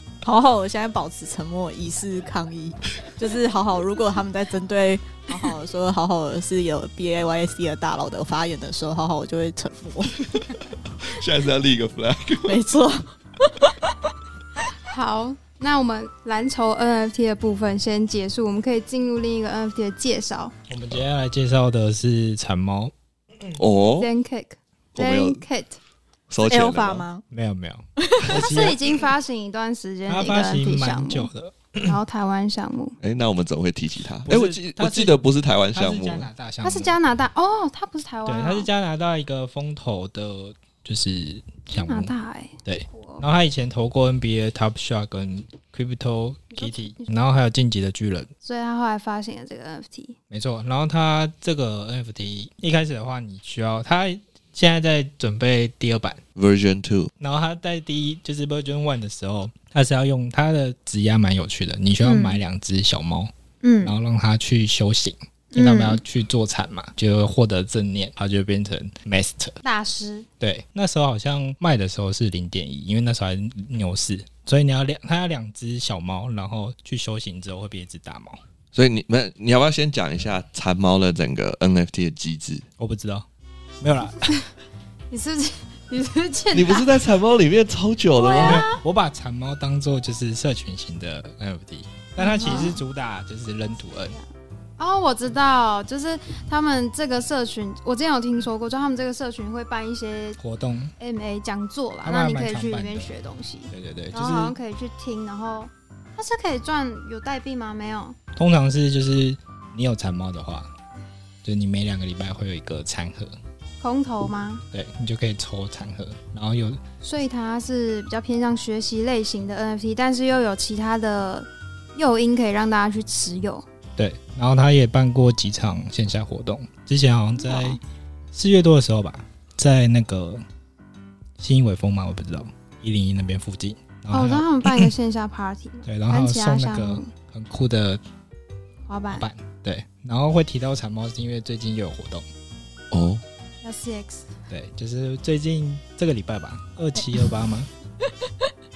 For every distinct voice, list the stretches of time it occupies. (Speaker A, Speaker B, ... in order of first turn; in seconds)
Speaker A: 0.2-10.2, 12.5-14.0, 26.5-27.2, 28.0-28.6, 148.1-148.5
Speaker B: 10.3-12.6, 23.6-24.1, 24.9-25.4, 26.3-27.1, 33.0-36.3, 56.4-57.1, 78.7-82.7, 86.5-88.7, 142.9-143.2
Speaker C: 14.8-20.5, 24.0-25.8, 28.3-31.3, 31.8-33.0, 36.6-38.7, 41.7-43.2, 46.5-47.1, 48.4-50.2, 62.0-62.4, 63.6-63.9, 65.5-66.0, 69.6-70.3, 85.1-86.9, 88.2-88.8, 92.2-92.8, 94.8-100.4, 101.0-108.2, 113.8-114.6, 117.0-123.7, 127.4-127.8, 134.1-137.1, 138.9-139.3, 143.6-144.3
Speaker D: 20.7-23.6, 27.3-29.0, 30.1-32.0, 34.3-35.2, 35.7-37.0, 38.3-42.1, 42.6-48.3, 50.3-56.2, 57.2-63.3, 63.8-69.5, 70.4-78.4, 82.8-83.3, 83.8-84.4, 88.4-94.2, 100.4-100.9, 102.0-103.1, 103.7-104.6, 108.4-110.7, 111.4-113.3, 114.7-116.8, 124.0-127.8, 128.3-130.4, 131.4-134.9, 135.9-138.0, 139.1-142.2, 144.5-147.7